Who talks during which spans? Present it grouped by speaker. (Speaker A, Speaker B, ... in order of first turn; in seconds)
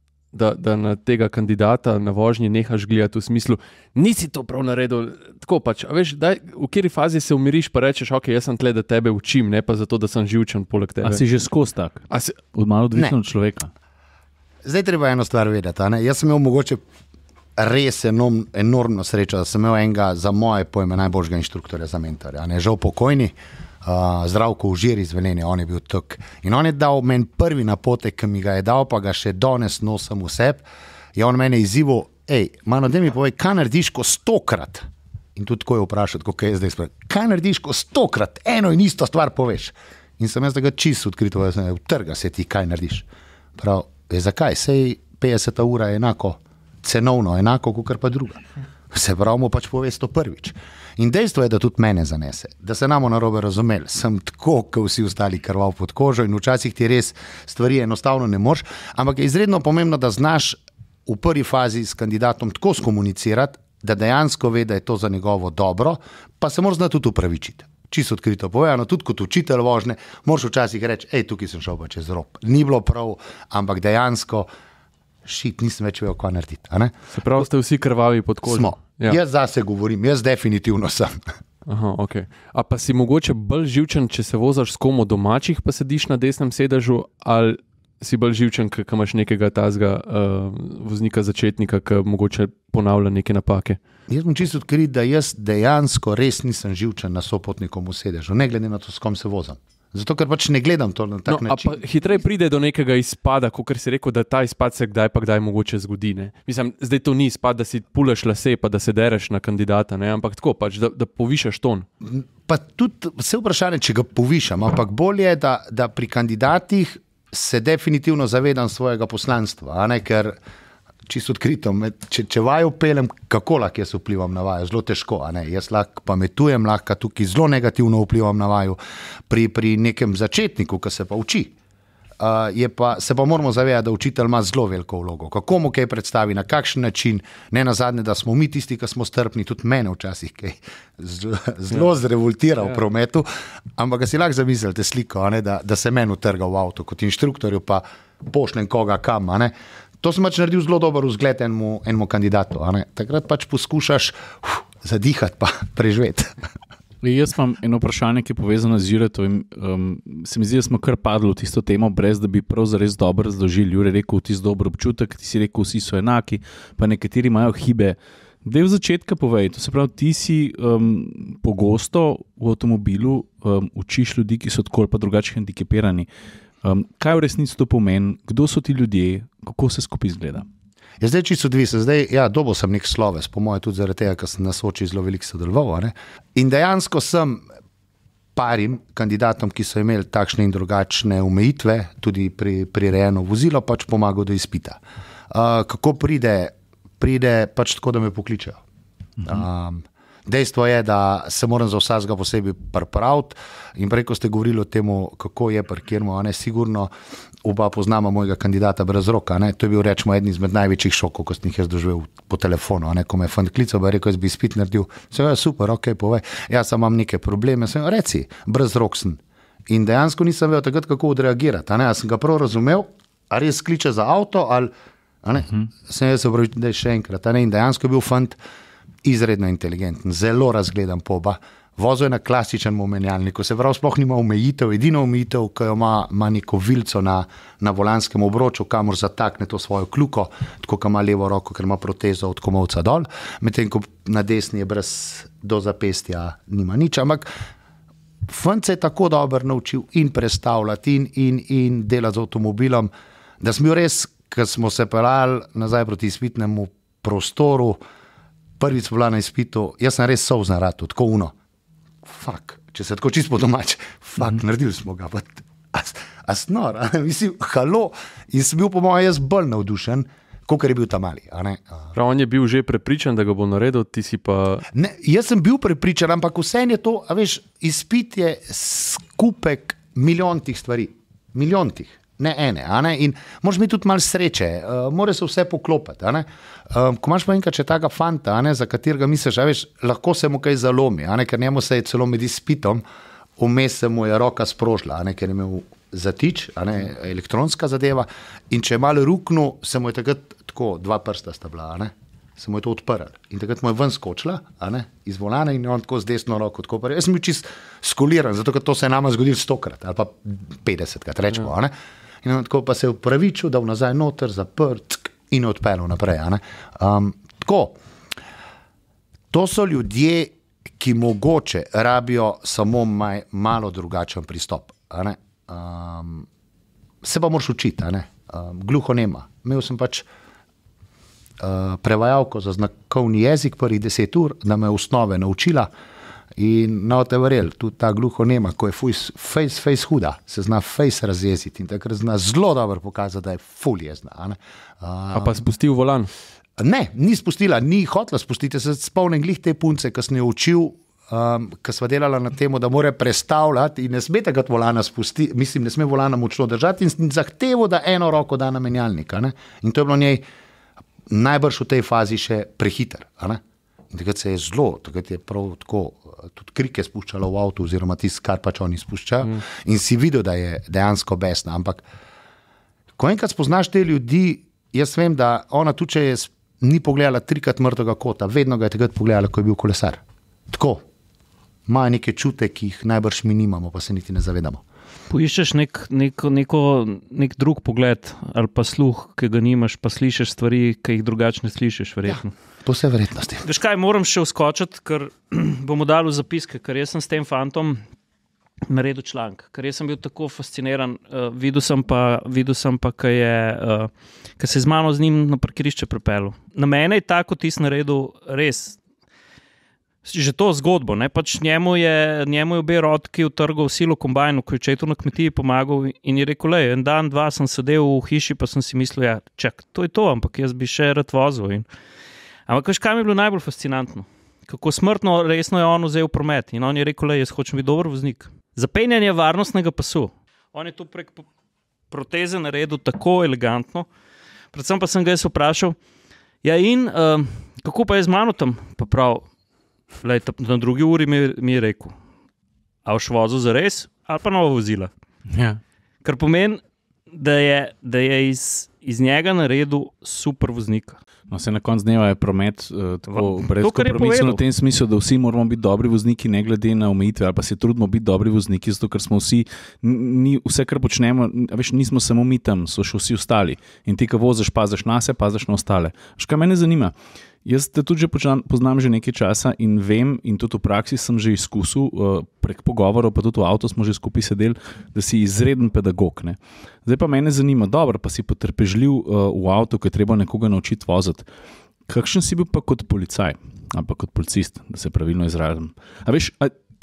Speaker A: 0.3-11.2, 12.1-12.4, 77.2-79.2, 81.7-93.8, 101.3-111.9, 271.9-274.6, 345.1-346.1
Speaker B: 11.0-13.7, 157.0-176.1, 176.6-180.4, 445.3-445.6, 451.3-466.9, 467.4-481.2, 481.9-486.5
Speaker C: 14.6-16.8, 17.6-30.6, 31.1-74.5, 75.2-76.9, 78.4-81.2, 94.1-101.8, 112.0-120.4, 121.1-128.8, 129.3-131.5, 132.2-143.2, 143.8-156.4, 181.0-187.4, 188.4-194.8, 195.3-198.6, 199.2-206.9, 207.4-224.7, 225.2-228.4, 229.0-247.3, 248.3-257.8, 258.6-261.3, 262.0-271.9, 274.7-292.8, 293.4-311.7, 312.2-317.8, 319.3-326.3, 327.0-330.1, 331.4-335.7, 336.4-345.4, 346.6-360.2, 361.1-371.8, 373.0-380.8, 381.7-384.6, 392.1-393.4
Speaker D: 385.1-392.3, 393.4-397.8, 398.7-408.8, 410.0-421.7, 422.5-431.2, 431.9-433.9, 434.5-435.8, 436.4-439.2, 440.0-441.9, 442.9-444.9, 446.0-451.0, 453.1-454.4